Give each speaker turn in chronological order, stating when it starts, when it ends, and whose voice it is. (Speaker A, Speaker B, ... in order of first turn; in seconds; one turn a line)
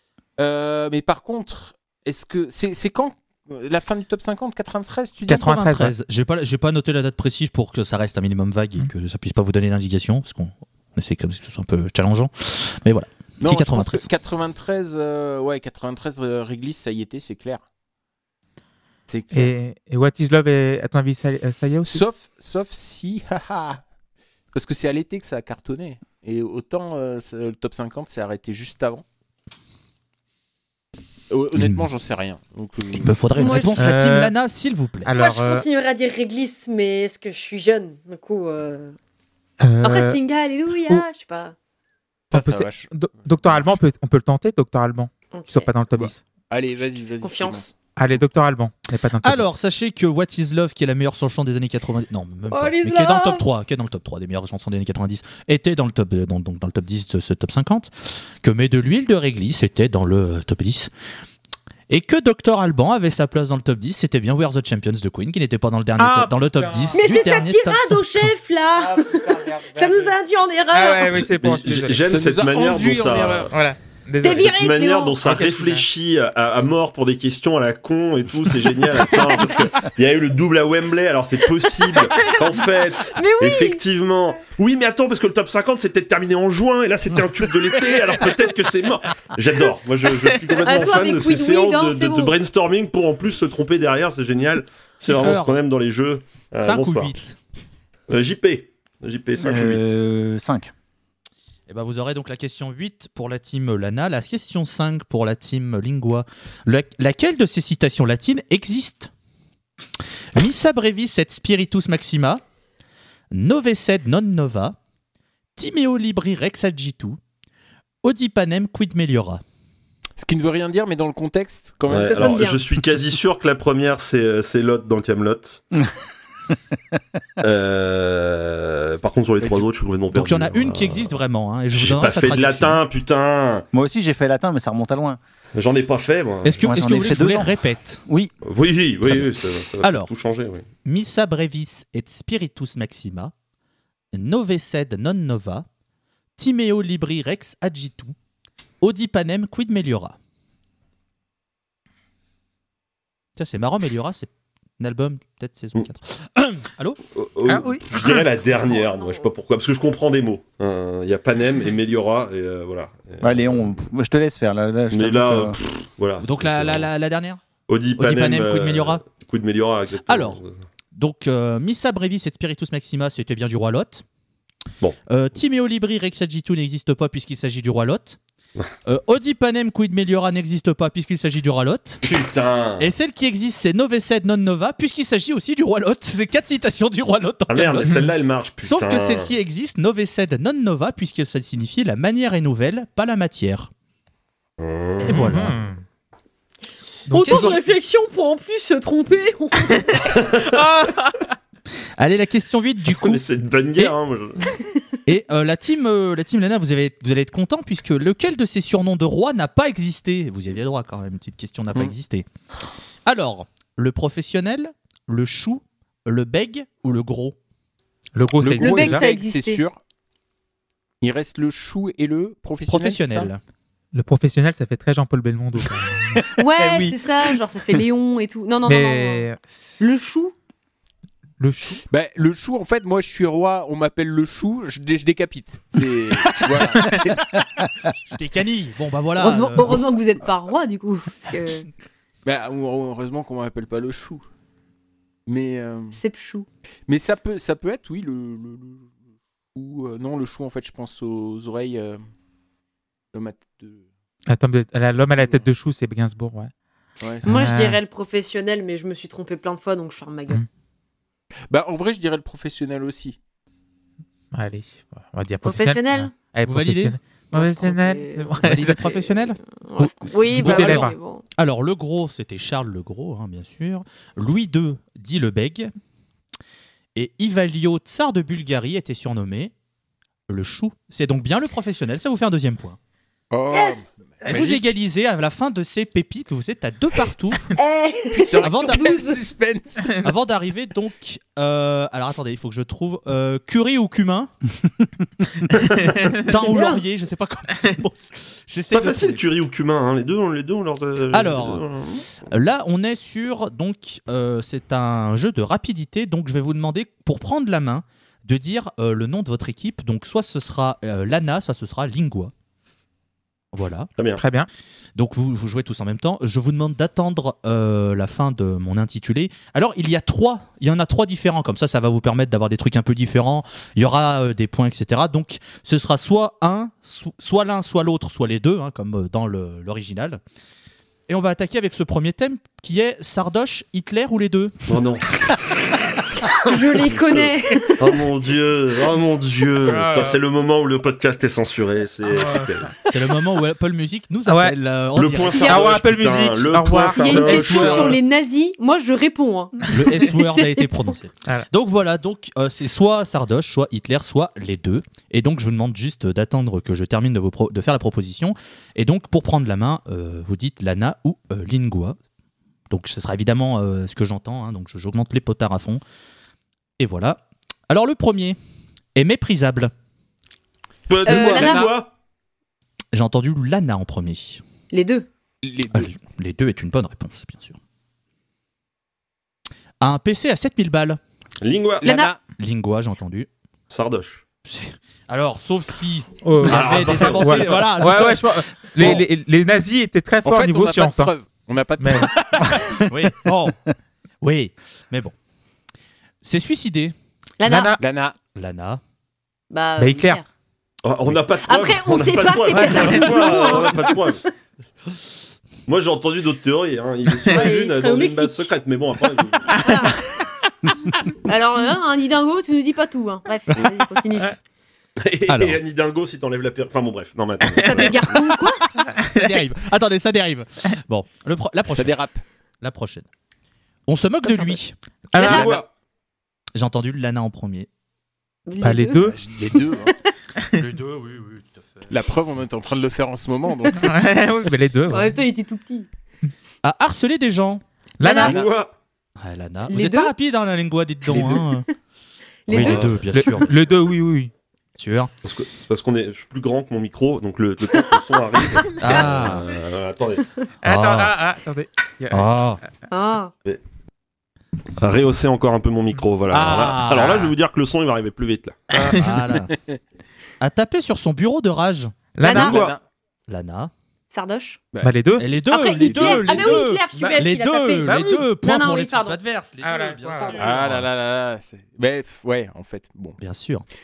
Speaker A: 0.4-5.5
Speaker B: 5.3-14.1
Speaker C: 5.3-5.9
Speaker A: 13.4-17.6
Speaker A: 19.1-19.5
Speaker C: 19.3-22.0
Speaker A: 21.9-23.8
Speaker A: 24.5-29.0
Speaker A: 31.3-33.2
Speaker B: 31.6-31.9
Speaker B: 33.0-35.1
Speaker D: 33.4-33.9
Speaker C: 33.8-34.3
Speaker C: 35.0-35.7
Speaker D: 35.1-39.0
Speaker C: 39.6-40.2
Speaker D: 39.8-41.5
Speaker A: 42.3-42.9
Speaker C: 42.3-46.2
Speaker D: 45.3-45.7
Speaker A: 45.9-47.6
Speaker D: 47.2-47.7
Speaker C: 48.0-49.5
Speaker B: 49.2-60.9
Speaker D: 52.5-53.5
Speaker B: 61.9-68.3
Speaker C: 66.0-67.1
Speaker D: 66.9-71.2
Speaker C: 69.1-70.1
Speaker C: 70.7-72.0
Speaker E: 71.2-73.5
Speaker A: 72.0-73.5
Speaker C: 73.5-74.5
Speaker D: 74.2-75.2
Speaker E: 74.3-97.2
Speaker C: 75.2-75.8
Speaker D: 83.1-83.9
Speaker D: 90.6-92.3
Speaker B: 95.0-95.6
Speaker B: 96.6-97.4
Speaker E: 98.1-100.0
Speaker F: 99.4-100.7
Speaker B: 101.7-109.1
Speaker B: 110.3-112.4
Speaker B: 113.3-114.8
Speaker B: 115.6-117.2
Speaker B: 118.0-119.4
Speaker A: 120.2-122.5
Speaker E: 121.9-125.6
Speaker D: 122.1-122.6
Speaker E: 127.4-131.1
Speaker A: 129.4-129.7
Speaker B: 130.1-132.8
Speaker E: 131.7-133.7
Speaker F: 133.7-135.2
Speaker E: 135.6-136.7
Speaker B: 136.4-138.0
Speaker F: 136.6-137.5
Speaker F: 138.1-138.3
Speaker E: 138.4-140.7
Speaker B: 139.8-140.1
Speaker B: 140.8-143.3
Speaker B: 144.1-145.7
Speaker B: 146.4-148.2
Speaker B: 148.8-150.2
Speaker B: 153.4-157.0
Speaker E: 157.1-163.7
Speaker C: 157.5-158.3
Speaker F: 163.2-165.6
Speaker E: 164.9-166.9
Speaker B: 166.2-167.4
Speaker E: 167.7-170.6
Speaker B: 168.0-169.1
Speaker B: 170.1-170.4
Speaker B: 170.9-174.1
Speaker B: 175.1-178.2
Speaker B: 178.8-182.0
Speaker E: 182.0-182.9
Speaker B: 182.8-188.0
Speaker E: 187.5-189.3
Speaker B: 188.6-193.7
Speaker E: 194.6-195.5
Speaker B: 195.1-195.6
Speaker C: 195.1-195.8
Speaker C: 197.1-197.6
Speaker D: 197.1-200.2
Speaker B: 197.2-197.6
Speaker E: 200.2-200.5
Speaker C: 200.5-201.2
Speaker B: 202.0-203.2
Speaker E: 202.9-204.5
Speaker B: 205.1-212.3
Speaker B: 213.1-217.4
Speaker C: 218.2-219.1
Speaker A: 218.4-219.8
Speaker D: 218.6-219.6
Speaker A: 221.0-223.3
Speaker B: 222.7-223.4
Speaker C: 223.9-226.9
Speaker D: 226.4-229.3
Speaker C: 228.7-229.6
Speaker D: 229.8-230.3
Speaker C: 231.4-231.8
Speaker A: 231.9-237.4
Speaker B: 238.1-239.8
Speaker D: 239.2-241.7
Speaker A: 242.2-244.2
Speaker A: 245.3-246.0
Speaker D: 245.9-246.5
Speaker A: 246.9-248.9
Speaker A: 249.6-252.0
Speaker A: 253.1-253.8
Speaker C: 254.3-256.5
Speaker A: 257.0-257.2
Speaker C: 257.2-257.8
Speaker D: 257.2-260.4
Speaker A: 261.5-263.2
Speaker C: 264.3-269.0
Speaker D: 265.4-266.1
Speaker B: 266.5-267.0
Speaker D: 267.3-268.4
Speaker B: 268.4-269.4
Speaker D: 269.5-271.2
Speaker C: 270.2-270.9
Speaker B: 270.3-275.7
Speaker B: 276.9-279.5
Speaker B: 280.3-282.8
Speaker A: 283.3-284.7
Speaker D: 283.5-283.8
Speaker B: 284.2-287.5
Speaker D: 287.6-289.2
Speaker A: 288.1-289.9
Speaker B: 288.4-288.9
Speaker B: 290.0-294.3
Speaker C: 295.6-296.4
Speaker B: 296.2-299.2
Speaker E: 298.7-302.1
Speaker B: 301.1-301.6
Speaker B: 302.2-312.3
Speaker B: 313.5-313.9
Speaker E: 314.0-314.2
Speaker C: 314.2-314.5
Speaker B: 315.0-330.2
Speaker B: 331.1-334.8
Speaker E: 334.7-335.6
Speaker E: 336.3-342.7
Speaker D: 336.4-338.0
Speaker C: 339.6-340.2
Speaker C: 342.2-342.6
Speaker B: 342.9-345.7
Speaker C: 344.3-344.6
Speaker E: 344.9-348.0
Speaker D: 345.2-345.7
Speaker C: 345.4-347.7
Speaker D: 346.8-350.9
Speaker B: 347.2-348.0
Speaker B: 349.7-362.0
Speaker B: 362.7-365.8
Speaker B: 366.8-368.4
Speaker B: 368.9-369.7
Speaker E: 370.9-371.9
Speaker D: 371.1-371.8
Speaker A: 371.1-371.7
Speaker B: 372.9-374.4
Speaker D: 374.7-375.1
Speaker A: 375.4-375.9
Speaker B: 375.7-377.6
Speaker B: 379.8-381.0
Speaker E: 381.4-381.9
Speaker A: 381.8-382.2
Speaker D: 381.8-382.2
Speaker B: 382.4-383.3
Speaker E: 383.7-384.2
Speaker B: 384.4-389.0
Speaker C: 386.2-391.1
Speaker E: 386.4-387.8
Speaker A: 390.2-392.4
Speaker C: 391.8-392.2
Speaker B: 392.8-393.6
Speaker B: 394.2-395.1
Speaker B: 396.2-396.9
Speaker D: 397.4-397.8
Speaker C: 397.4-397.8
Speaker A: 397.8-398.2
Speaker B: 398.4-398.8
Speaker D: 399.5-400.2
Speaker C: 399.8-400.2
Speaker E: 400.8-404.2
Speaker D: 401.4-404.3
Speaker C: 402.5-403.6
Speaker E: 405.7-409.7
Speaker D: 407.2-408.5
Speaker D: 409.6-410.1
Speaker D: 411.2-414.4
Speaker E: 415.0-418.2
Speaker B: 415.3-415.6
Speaker D: 417.6-418.7
Speaker B: 419.0-422.0
Speaker A: 421.7-422.2
Speaker B: 422.6-423.1
Speaker B: 423.9-424.8
Speaker D: 424.3-424.6
Speaker C: 425.1-425.6
Speaker D: 425.1-425.6
Speaker E: 425.2-425.7
Speaker B: 426.6-427.7
Speaker D: 428.5-430.1
Speaker C: 428.6-429.2
Speaker A: 429.1-430.0
Speaker B: 430.5-431.9
Speaker A: 431.9-433.9
Speaker C: 433.8-435.2
Speaker D: 434.9-435.9
Speaker B: 436.6-437.6
Speaker C: 438.0-438.4
Speaker D: 438.0-438.4
Speaker E: 438.2-438.7
Speaker A: 438.2-438.5
Speaker B: 439.2-441.7
Speaker D: 439.7-440.1
Speaker A: 441.1-441.4
Speaker D: 442.5-443.4
Speaker B: 442.5-443.6
Speaker E: 442.5-443.0
Speaker C: 443.1-444.3
Speaker B: 444.8-445.1
Speaker E: 445.2-450.2
Speaker D: 448.6-449.0
Speaker B: 448.8-449.5
Speaker B: 450.6-451.2
Speaker C: 450.6-452.3
Speaker B: 452.1-452.6
Speaker D: 452.9-453.3
Speaker E: 454.8-459.0
Speaker B: 456.3-457.4
Speaker C: 458.8-459.1
Speaker B: 458.9-459.6
Speaker A: 459.3-459.7
Speaker B: 460.4-462.1
Speaker C: 462.1-462.7
Speaker D: 462.2-462.6
Speaker E: 462.3-462.8
Speaker A: 462.4-462.8
Speaker B: 463.3-463.7
Speaker D: 464.1-464.6
Speaker C: 464.8-465.3
Speaker B: 465.2-470.9
Speaker D: 465.5-469.2
Speaker A: 465.8-466.6
Speaker C: 469.6-470.4
Speaker A: 470.4-473.2
Speaker B: 473.2-473.6